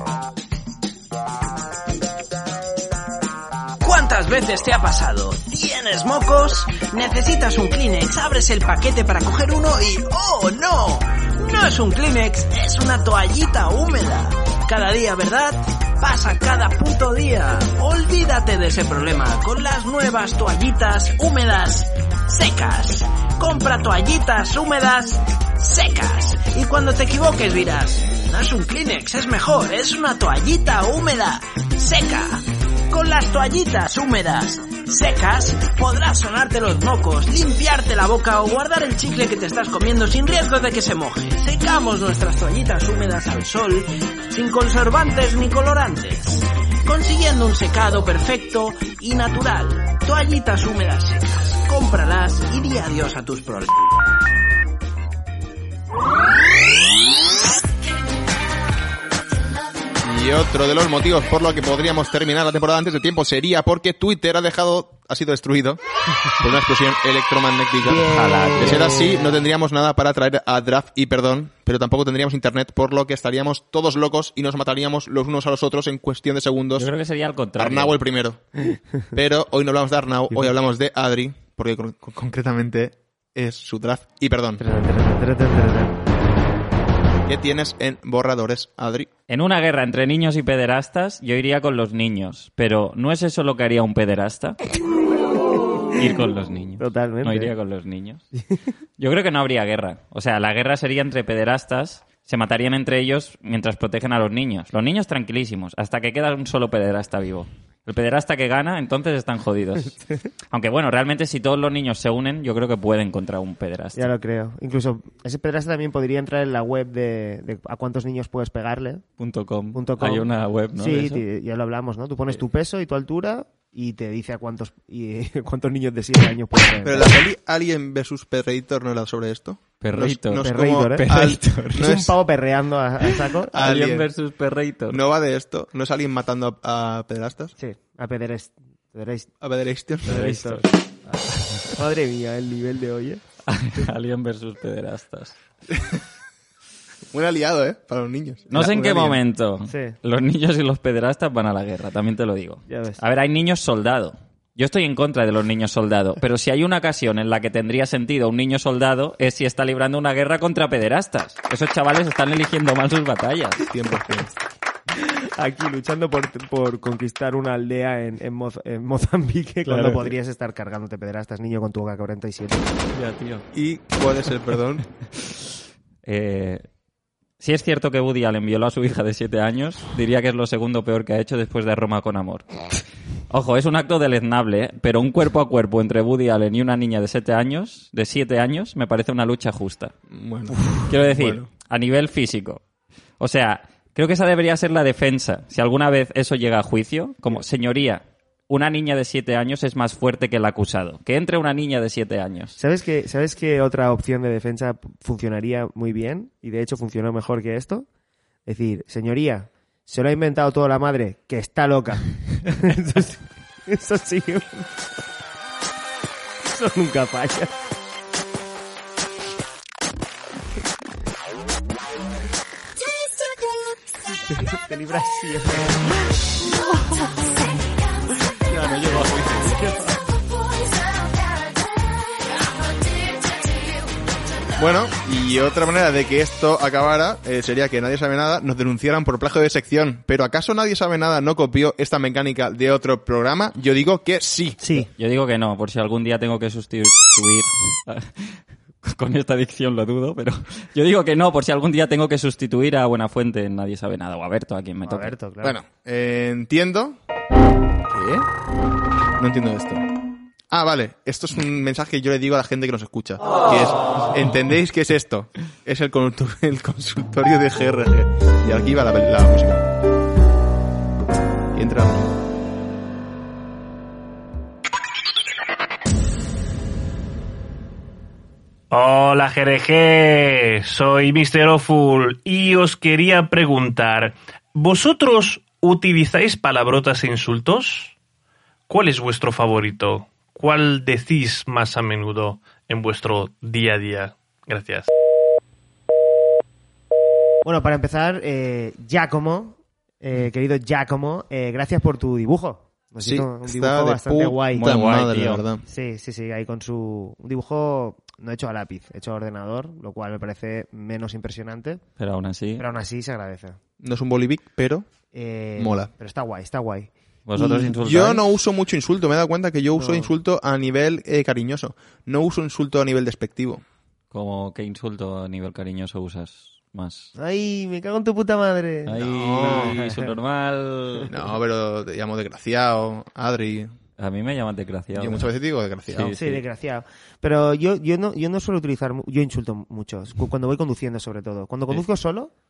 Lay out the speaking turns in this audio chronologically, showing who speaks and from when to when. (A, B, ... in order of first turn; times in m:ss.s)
0:03.8-0:53.8 A
1:00.0-1:05.8 B
1:06.4-1:16.9 B
1:07.8-1:09.4 C
1:08.1-1:09.0 D
1:16.8-1:18.0 D
1:17.6-1:18.4 B
1:19.1-1:24.6 B
1:24.6-1:26.0 C
1:27.3-1:29.1 B
1:29.3-1:34.6 D
1:35.9-1:38.2 D
1:36.8-1:37.5 C
1:39.0-1:50.0 D
1:50.5-1:54.1 D
1:54.0-1:59.0 C
1:59.2-2:01.2 D
1:59.7-2:07.2 C
2:06.8-2:12.1 B
2:09.8-2:11.9 D
2:10.4-2:13.6 C
2:13.1-2:15.0 D
2:13.5-2:14.1 B
2:14.9-2:17.5 B
2:17.6-2:19.3 C
2:19.4-2:20.2 B
2:20.0-2:20.6 C
2:20.1-2:21.6 D
2:21.7-2:23.2 C
2:23.5-2:25.4 D
2:25.7-2:26.0 B
2:27.1-2:29.2 B
2:28.5-2:43.6 D
2:29.7-2:30.0 C
2:32.7-2:33.0 C
2:43.7-2:44.3 B
2:44.9-2:52.7 C
2:52.9-2:53.4 D
2:53.5-2:54.9 B
2:56.0-2:56.6 D
2:57.4-3:02.5 D
3:03.3-3:09.9 D
3:10.1-3:11.5 B
3:10.8-3:12.6 D
3:13.2-3:22.6 D
3:22.6-3:27.9 C
3:28.5-3:34.7 C
3:36.4-3:37.5 C
3:44.3-3:46.0 C
3:48.5-3:49.6 D
3:49.6-3:49.9 C
3:54.6-4:04.6 B
4:04.6-4:04.9 C
4:05.0-4:15.2 D
4:14.8-4:15.6 C
4:15.4-4:17.0 B
4:17.9-4:18.3 B
4:19.2-4:19.8 B
4:20.5-4:29.6 B
4:31.5-4:32.1 B
4:38.7-4:47.9 E
4:48.7-4:54.9 E
4:57.4-5:04.7 C
5:03.0-5:05.6 B
5:04.5-5:05.4 D
5:05.7-5:11.8 C
5:12.0-5:12.6 D
5:12.6-5:13.6 C
5:13.8-5:14.9 B
5:15.1-5:17.8 C
5:15.6-5:15.9 B
5:17.3-5:18.2 D
5:17.8-5:23.6 B
5:19.7-5:20.1 C
5:24.1-5:27.1 D
5:27.2-5:30.1 C
5:28.9-5:31.1 D
5:29.0-5:29.8 B
5:31.1-5:33.7 B
5:34.0-5:35.3 D
5:35.0-5:36.1 B
5:35.9-5:36.4 D
5:36.2-5:42.3 C